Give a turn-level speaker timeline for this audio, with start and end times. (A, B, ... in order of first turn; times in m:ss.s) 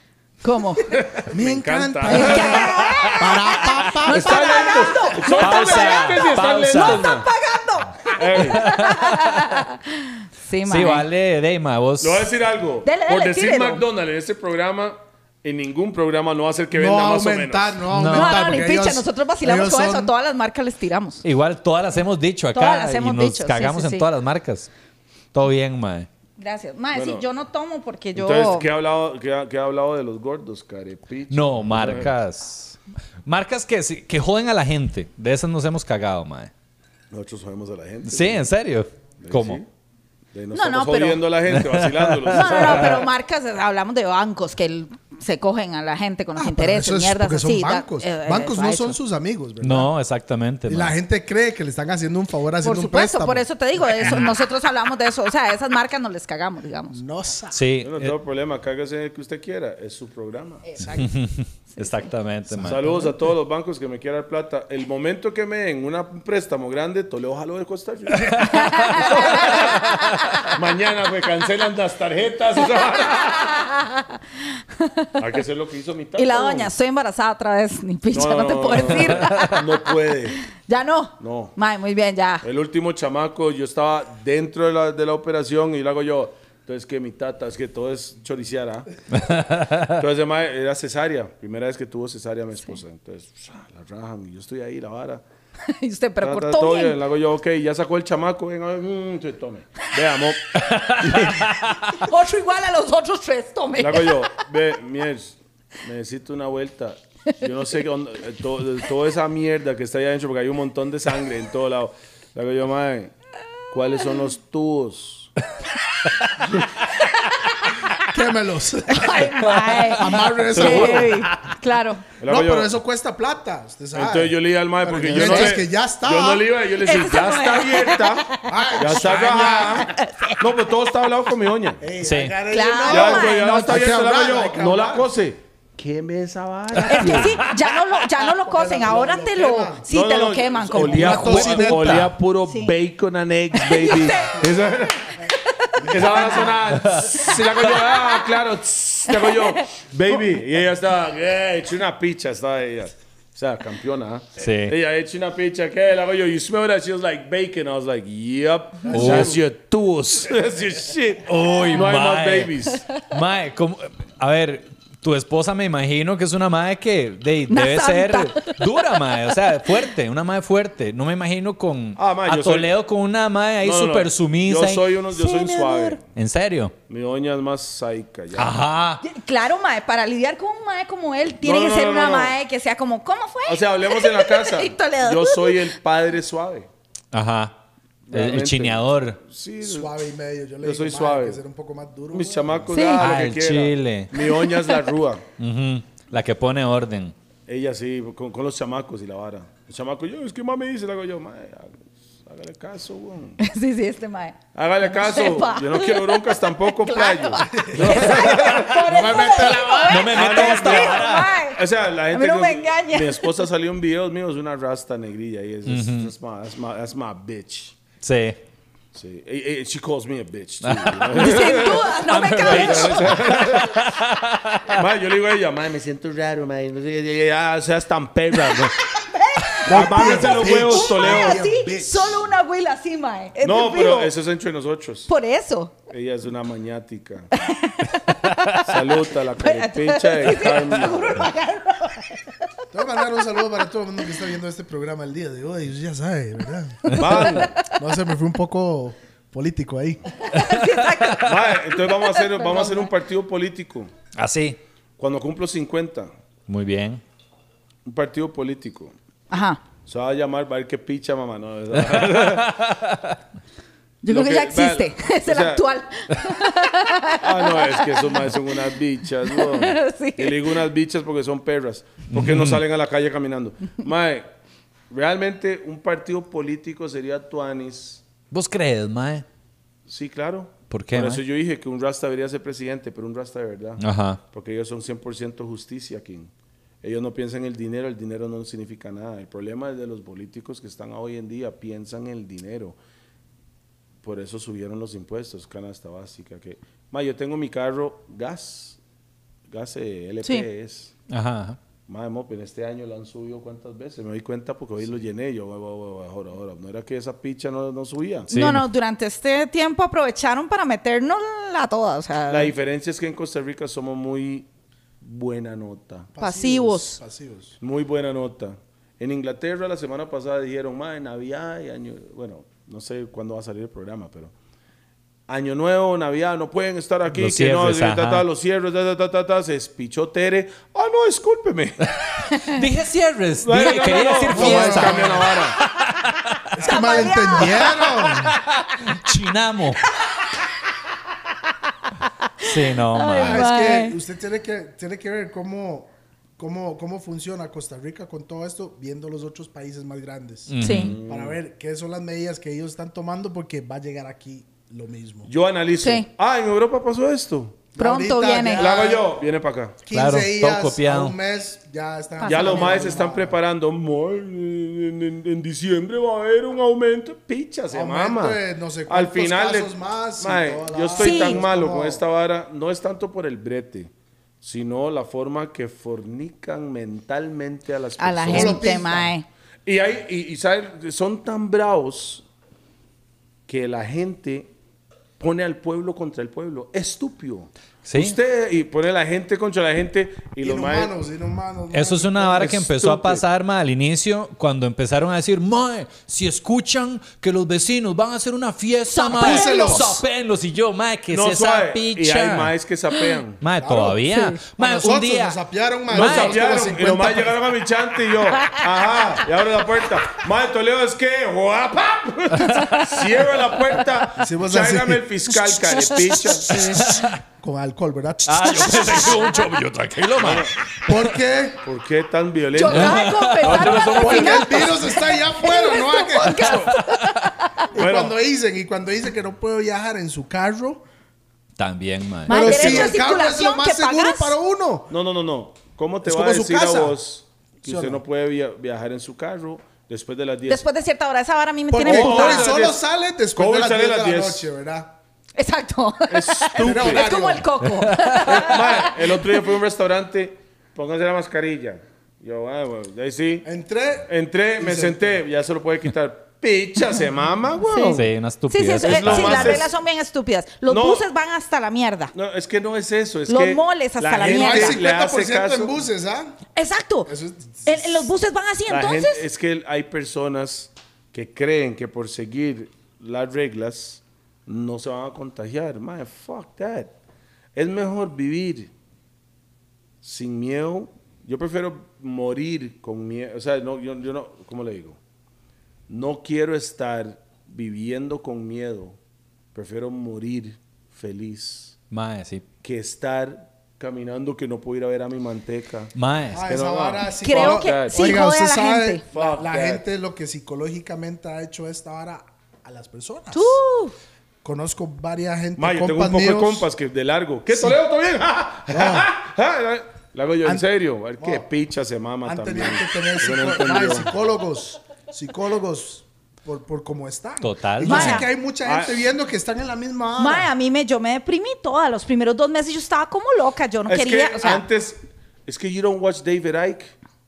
0:00.4-0:00.9 A
0:00.8-0:07.3 B
0:01.3-0:05.4 C
0:02.1-0:11.1 A
0:05.3-0:07.1 D
0:08.1-0:08.7 B
0:08.4-0:09.6 D
0:10.6-0:12.3 D
0:12.0-0:17.8 B
0:12.8-0:13.8 A
0:16.7-0:20.1 C
0:17.9-0:18.7 D
0:18.1-0:21.2 A
0:21.2-0:24.7 D
0:22.5-0:24.1 A
0:25.3-0:26.1 D
0:26.4-0:28.7 A
0:26.9-0:27.2 B
0:28.2-0:32.2 B
0:31.3-0:36.5 D
0:37.1-0:38.5 B
0:38.1-0:39.6 D
0:39.2-0:39.7 B
0:40.3-0:43.1 B
0:40.5-0:41.3 A
0:41.5-0:43.0 D
0:42.3-0:49.0 A
0:46.4-0:49.9 C
0:49.6-0:51.0 D
0:50.7-0:54.3 C
0:52.6-0:57.0 A
0:56.9-0:57.6 C
0:57.5-0:58.2 D
0:57.8-1:00.6 B
1:00.6-1:01.2 A
1:01.0-1:03.0 D
1:01.7-1:02.1 A
1:02.5-1:03.1 C
1:02.6-1:13.7 B
1:08.3-1:09.1 D
1:08.4-1:10.5 A
1:09.9-1:10.2 D
1:13.0-1:15.2 A
1:15.2-1:16.7 B
1:16.2-1:19.9 A
1:18.1-1:20.4 B
1:20.6-1:22.4 A
1:21.2-1:21.5 B
1:22.4-1:28.9 B
1:29.1-1:29.9 D
1:29.9-1:35.2 B
1:35.7-1:37.0 A
1:36.2-1:41.4 B
1:40.6-1:41.9 D
1:41.9-1:44.3 A
1:43.8-1:53.1 B
1:53.7-1:55.3 B
1:57.2-1:57.9 A
1:58.0-2:01.3 C
1:58.9-2:02.0 A
2:00.5-2:01.2 B
2:02.2-2:02.8 B
2:02.2-2:06.5 C
2:03.9-2:11.8 B
2:06.8-2:10.6 A
2:08.5-2:09.9 C
2:11.8-2:15.1 C
2:12.0-2:12.3 D
2:12.5-2:13.8 A
2:12.9-2:17.5 B
2:16.8-2:21.8 A
2:16.9-2:17.4 D
2:18.2-2:19.9 C
2:19.9-2:25.2 B
2:20.8-2:22.1 C
2:20.8-2:22.2 D
2:22.5-2:22.7 A
2:23.6-2:28.3 A
2:25.2-2:26.6 C
2:25.9-2:42.8 B
2:26.7-2:27.3 D
2:29.1-2:29.7 A
2:34.4-2:34.8 D
2:38.8-2:39.4 C
2:38.9-2:39.4 D
2:41.2-2:56.7 D
2:47.5-2:49.1 A
2:52.0-2:52.7 B
2:53.6-2:56.0 B
2:55.2-2:56.0 A
2:56.9-2:58.6 B
2:58.4-2:59.0 D
2:59.0-3:05.7 A
3:01.4-3:02.4 B
3:03.5-3:06.7 B
3:07.1-3:07.6 D
3:08.1-3:09.9 B
3:08.1-3:09.2 D
3:09.6-3:12.8 C
3:10.6-3:11.4 B
3:12.1-3:15.2 B
3:12.7-3:13.1 A
3:13.0-3:14.1 D
3:14.2-3:14.9 A
3:15.4-3:17.2 D
3:17.5-3:23.4 B
3:23.4-3:33.3 A
3:24.6-3:29.2 B
3:27.5-3:30.2 C
3:29.5-3:31.3 D
3:30.1-3:37.8 B
3:35.7-3:36.1 D
3:38.0-3:38.4 D
3:38.9-3:43.9 B
3:40.6-3:44.8 D
3:41.1-3:43.2 A
3:44.7-3:48.8 B
3:48.5-3:54.1 A
3:49.6-3:51.5 B
3:49.7-3:52.3 C
3:53.4-3:55.1 B
3:55.1-3:55.7 A
3:55.9-3:57.3 B
3:57.4-3:58.0 A
3:58.1-3:58.6 D
3:58.6-4:01.3 B
3:59.4-4:02.5 A
4:02.7-4:10.1 C
4:06.9-4:07.6 B
4:07.0-4:07.6 A
4:10.2-4:12.9 A
4:10.4-4:11.1 D
4:11.2-4:13.9 B
4:14.2-4:14.6 D
4:15.0-4:16.1 B
4:16.5-4:17.0 D
4:17.8-4:18.9 B
4:19.3-4:19.6 A
4:19.9-4:22.6 B
4:21.8-4:23.2 D
4:24.0-4:28.4 A
4:24.1-4:25.6 B
4:27.2-4:34.3 B
4:29.3-4:30.6 A
4:32.1-4:32.6 D
4:34.9-4:38.0 B
4:38.3-4:39.2 D
4:39.9-4:46.3 B
4:40.7-4:41.2 D
4:43.8-4:44.2 D
4:46.8-4:52.8 B
4:54.0-4:58.8 B
4:59.5-5:00.9 B
5:01.1-5:01.6 D
5:01.9-5:08.3 B
5:08.3-5:12.5 A
5:08.3-5:08.7 D
5:12.3-5:14.5 B
5:15.0-5:16.1 B
5:16.1-5:17.6 C
5:16.2-5:17.0 A
5:17.6-5:24.3 B
5:25.3-5:31.9 B
5:27.1-5:28.2 D
5:32.3-5:32.6 A
5:32.5-5:36.4 D
5:33.4-5:35.6 B
5:34.2-5:35.4 C
5:36.5-5:38.4 C
5:36.6-5:38.3 A
5:38.2-5:39.8 D
5:40.0-5:40.3 A
5:42.4-5:44.0 A
5:42.4-5:43.5 D
5:43.1-5:55.3 C
5:50.5-5:51.0 D
5:50.6-5:50.9 A
5:50.6-5:51.4 B
5:55.3-5:57.6 B
5:55.8-5:56.1 A
5:57.8-5:59.1 C
5:57.8-5:58.7 A
5:58.5-5:59.8 B
5:59.8-6:03.4 C
5:59.9-6:01.2 D
6:02.2-6:02.9 A
6:02.2-6:13.9 B
6:07.7-6:12.0 C
6:11.0-6:11.4 A
6:14.4-6:18.6 B
6:18.0-6:19.3 A
6:18.3-6:19.2 C
6:19.7-6:22.2 B
6:23.5-6:24.5 B
6:25.2-6:30.9 B
6:27.8-6:28.2 D
6:30.4-6:32.6 C
6:31.7-6:42.5 D
6:32.4-6:33.2 B
6:38.9-6:40.0 A
6:39.1-6:40.0 C
6:41.1-6:43.4 B
6:43.4-6:45.4 D
6:43.6-6:47.3 C
6:45.9-6:46.5 D
6:45.9-6:56.6 B
6:52.4-6:52.9 D
6:54.2-6:55.1 C
6:55.7-6:59.3 C
6:56.4-6:57.2 D
6:58.3-7:00.9 D
6:58.9-6:59.3 A
7:00.2-7:00.5 B
7:00.8-7:01.6 C
7:01.6-7:04.8 B
7:02.5-7:07.7 A
7:02.7-7:04.2 D
7:03.9-7:06.8 C
7:06.4-7:07.3 D
7:07.7-7:10.8 C
7:07.7-7:08.2 B
7:11.6-7:12.9 D
7:12.3-7:14.4 A
7:12.3-7:14.9 C
7:14.9-7:20.6 B
7:16.0-7:17.0 C
7:17.6-7:18.0 C
7:20.5-7:22.6 A
7:21.7-7:25.0 C
7:21.8-7:22.8 B
7:23.4-7:24.4 B
7:25.4-7:29.2 A
7:26.1-7:27.1 B
7:26.6-7:27.5 C
7:27.8-7:28.2 D
7:28.2-7:33.5 B
7:33.4-7:35.2 C
7:34.1-7:38.1 B
7:37.6-7:42.1 A
7:37.9-7:39.6 D
7:38.8-7:39.7 B
7:40.7-7:41.1 B
7:42.1-7:45.7 B
7:43.3-7:44.8 A
7:44.2-7:46.4 C
7:46.6-7:47.1 A
7:47.1-7:48.1 C
7:47.6-7:49.2 A
7:48.7-7:56.9 B
7:57.5-7:58.7 B
8:00.0-8:05.0 B
8:05.9-8:09.0 B
8:09.5-8:11.8 B
8:11.9-8:12.4 D
8:12.6-8:18.0 B
8:16.0-8:16.4 D
8:16.3-8:23.6 C
8:17.2-8:19.0 A
8:19.1-8:19.8 B
8:23.3-8:24.0 A
8:24.4-8:26.7 C
8:25.6-8:34.1 B
8:27.5-8:27.8 C
8:28.7-8:29.1 C
8:31.2-8:31.5 C
8:32.2-8:40.5 C
8:37.4-8:38.2 D
8:37.8-8:38.3 A
8:38.6-8:39.0 B
8:40.2-8:44.6 A
8:43.9-8:46.9 B